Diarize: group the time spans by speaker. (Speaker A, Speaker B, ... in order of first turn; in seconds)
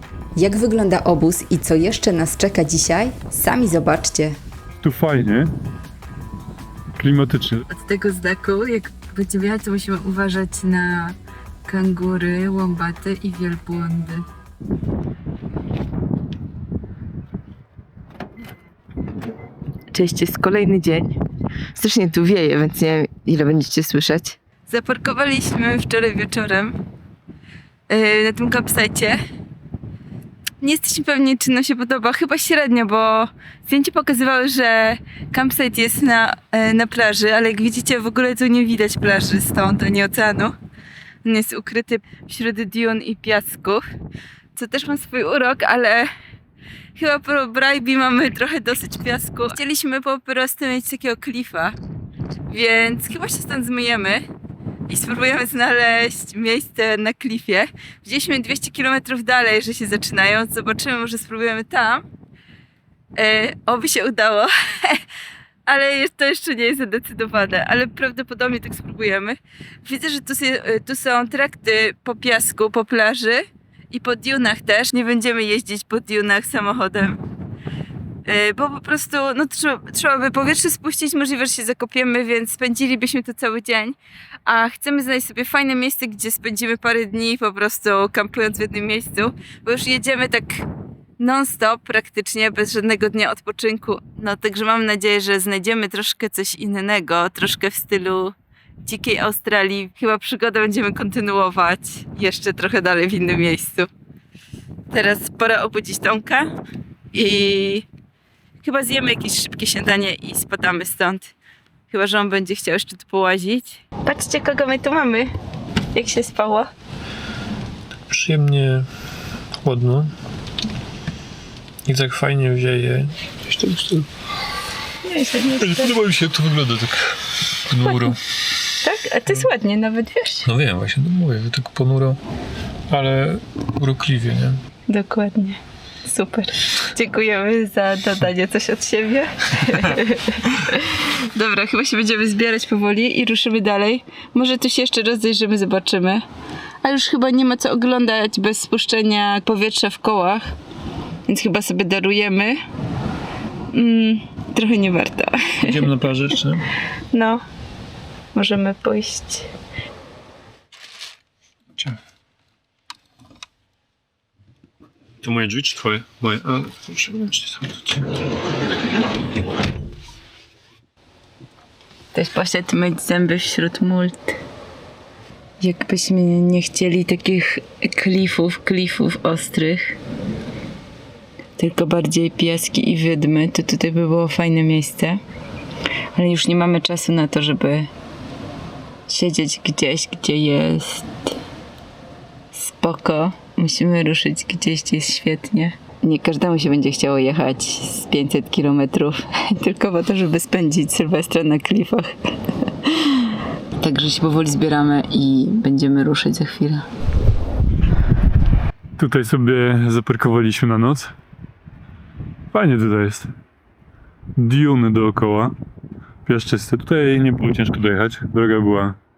Speaker A: 0.3-4.4
Speaker B: 4.8-5.5, 7.0-7.7, 125.6-126.9, 209.0-211.1, 212.5-213.3, 214.3-215.6, 216.2-219.0
Speaker C: 7.7-14.2, 19.9-21.2, 21.7-26.8, 27.9-29.2, 30.6-40.5, 41.2-43.8, 44.5-46.1, 47.0-51.8, 52.5-54.2, 54.9-62.0, 63.1-65.0, 65.7-77.2, 78.2-90.7, 91.2-103.9, 104.9-106.6, 107.1-107.8, 108.6-111.3, 111.9-115.3, 115.9-116.7, 125.0-126.0, 127.8-128.1, 128.8-130.5, 134.9-146.2, 146.8-150.5, 151.3-152.6, 153.7-155.9, 157.1-157.4, 158.3-159.5, 172.1-174.4, 175.6-180.0, 181.6-185.2, 186.1-187.9, 189.1-191.3, 192.5-206.8
Speaker D: 118.1-118.9, 119.6-120.1, 121.8-124.1, 126.3-126.9, 127.7-128.2, 130.4-132.2, 132.9-134.6, 155.6-156.7, 165.2-168.2